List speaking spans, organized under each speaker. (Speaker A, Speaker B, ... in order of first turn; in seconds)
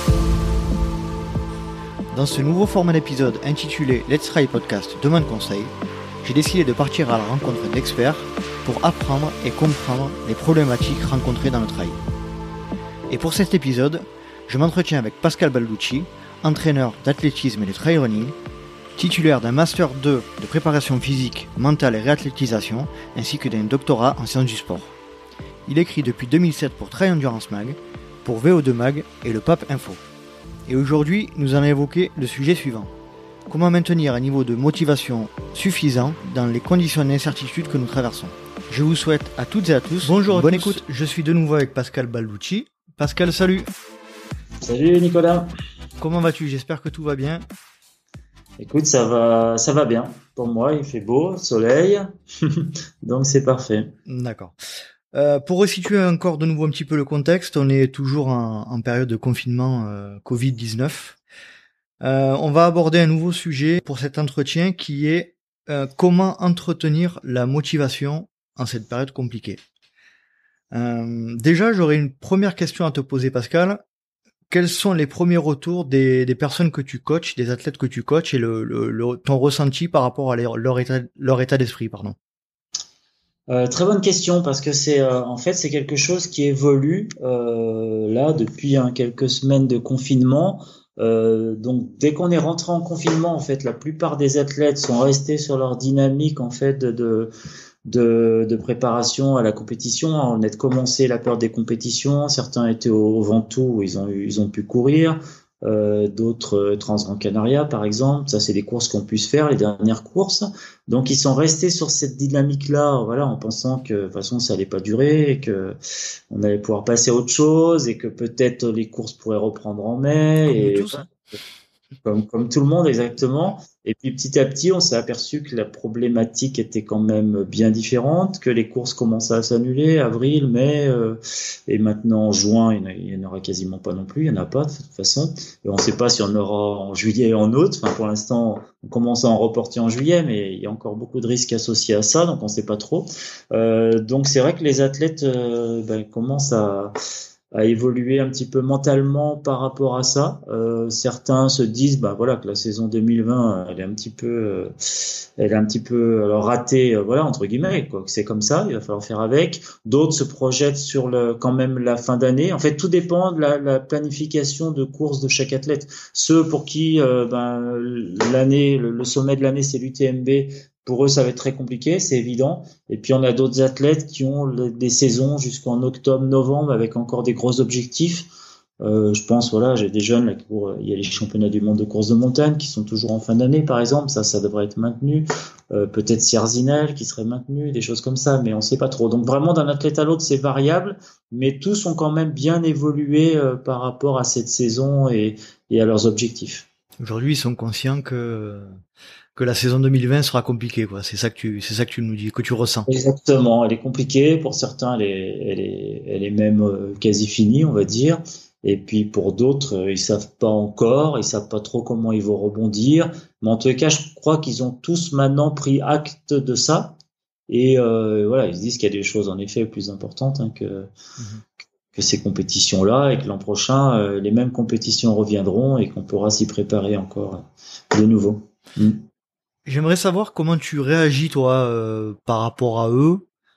Speaker A: 2.1-12.0, 13.1-18.4, 19.0-24.9, 25.7-30.0, 30.7-32.9, 33.5-43.7, 46.0-47.5, 54.1-54.5, 55.1-61.2, 62.0-69.6, 70.7-73.8, 74.5-82.2, 120.5-121.0, 197.0-198.8, 199.4-202.9, 229.7-233.2
Speaker B: 40.2-40.8, 44.6-45.5, 48.6-53.9, 83.5-97.3, 97.9-115.8, 116.3-121.1, 122.0-146.9, 147.5-178.3, 178.8-196.7, 202.9-216.9, 217.5-220.9, 221.9-229.0